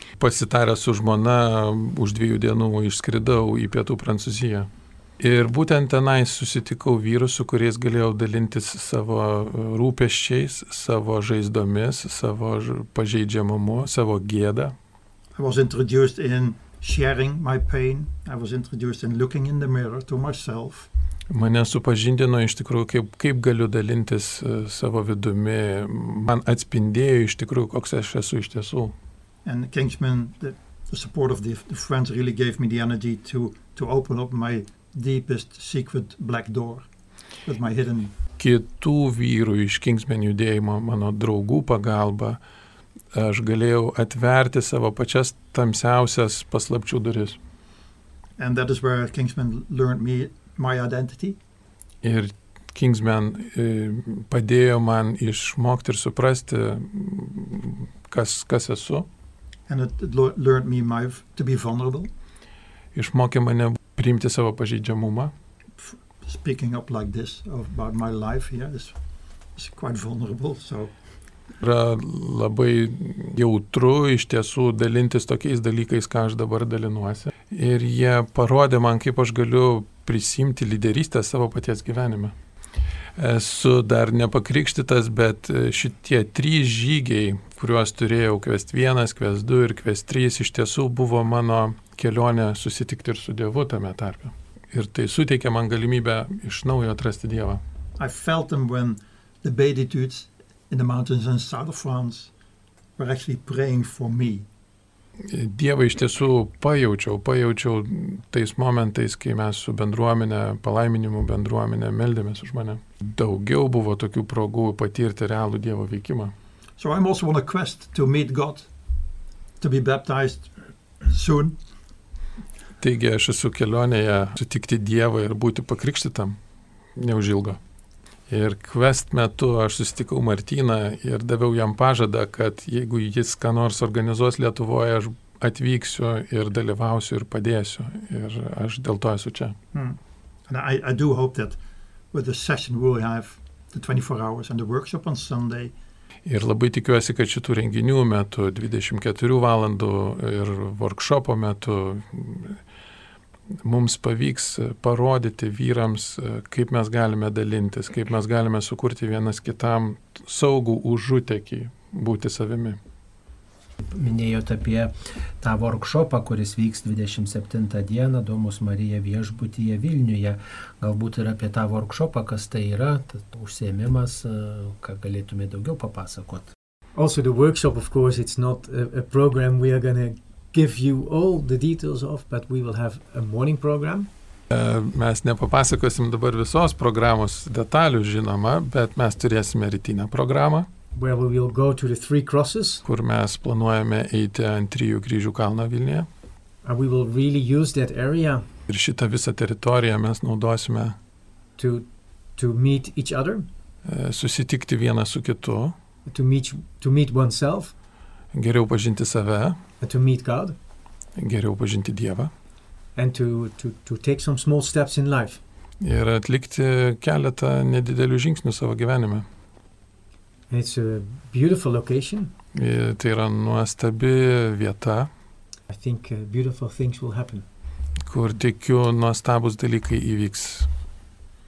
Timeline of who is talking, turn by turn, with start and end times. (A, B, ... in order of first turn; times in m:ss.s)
0:00.2-0:14.8 A
0:15.4-0:20.9 B
0:21.3-0:28.9 A
0:29.4-0:36.9 B
0:37.4-0:38.1 B
0:38.4-0:42.4 A
0:43.1-0:47.4 A
0:48.4-0:51.4 B
0:52.0-0:59.1 A
0:59.7-1:02.1 B
1:02.9-1:05.3 A
1:05.8-1:09.0 B
1:09.6-1:10.9 B
1:11.6-1:22.4 A
1:23.2-1:37.6 A
1:38.0-1:42.3 B
1:43.0-1:44.5 B
1:45.2-1:56.3 A
1:56.8-1:58.7 B
1:59.6-2:00.5 B
2:01.0-2:01.6 B
2:02.8-2:06.4 A
2:07.0-2:07.6 A
2:08.3-2:19.6 A
2:19.7-2:21.6 B
2:22.1-2:25.8 B
2:26.2-2:32.6 A
2:33.6-2:42.8 A
2:43.9-2:56.5 C
2:57.0-3:04.1 D
3:04.5-3:10.7 A
3:10.9-3:12.8 D
3:12.8-3:16.1 A
3:16.6-3:18.5 D
3:18.7-3:21.0 A
3:21.6-3:23.5 D
3:23.8-3:25.8 A
3:26.1-3:27.7 D
3:28.3-3:29.6 A
3:29.8-3:30.6 D
3:31.2-3:32.3 A
3:33.0-3:35.4 D
3:35.8-3:39.3 A
3:40.5-3:42.3 D
3:42.5-3:45.1 A
3:45.7-3:47.4 D
3:48.0-3:50.7 A